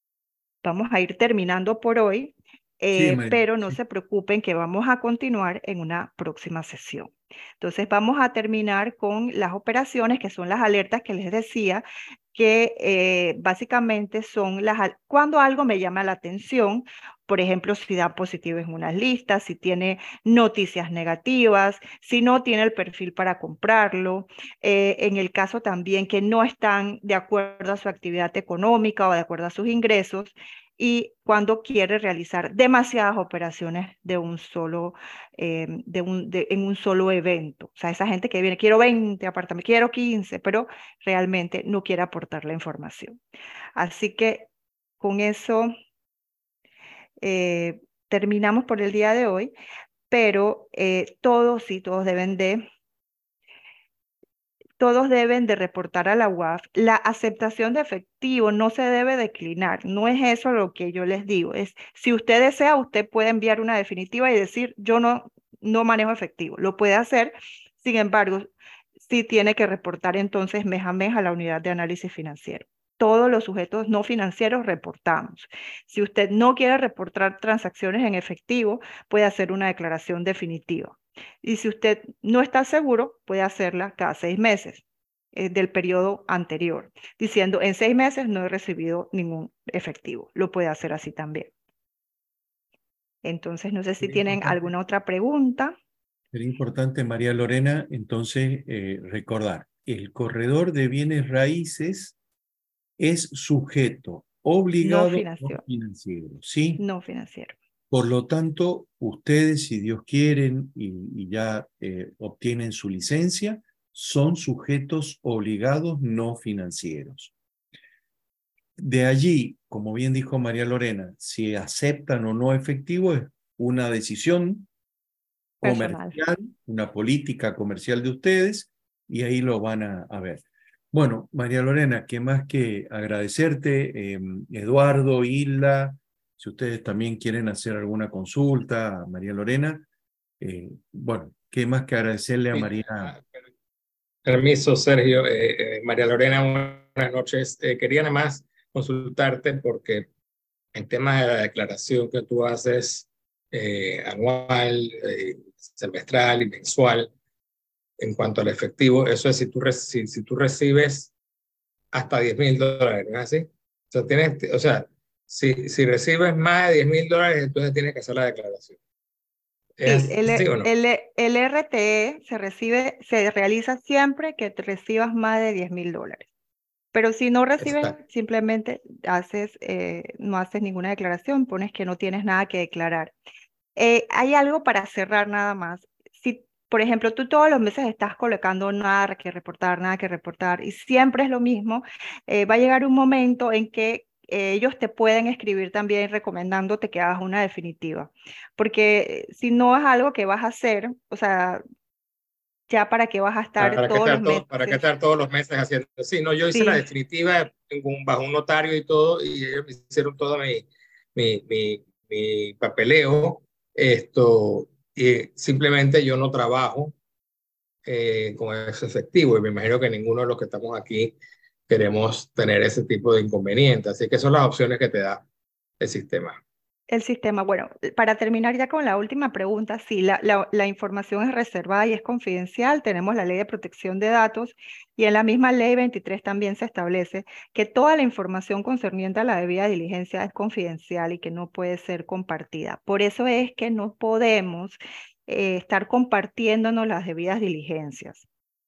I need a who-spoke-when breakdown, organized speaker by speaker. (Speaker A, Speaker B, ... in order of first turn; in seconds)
Speaker A: 0.6-43.2, 43.8-44.5, 45.0-45.7, 47.2-49.5, 50.1-52.7, 54.8-91.5, 93.2-95.8, 104.8-105.6, 106.8-107.6, 125.6-126.2, 169.8-176.3, 176.9-183.1, 183.8-201.6, 202.7-204.8, 206.5-206.8, 226.9-248.3
Speaker B: 2.9-3.8, 94.0-94.6, 96.3-102.2, 103.0-106.8, 107.9-117.3, 118.8-124.7, 125.6-139.9, 140.4-143.1
Speaker C: 142.5-143.4, 144.2-150.1, 150.7-157.1, 158.0-161.1, 161.9-168.8, 169.8-170.7, 177.6-177.9, 203.6-216.9, 217.9-221.2, 221.7-225.2, 225.8-226.4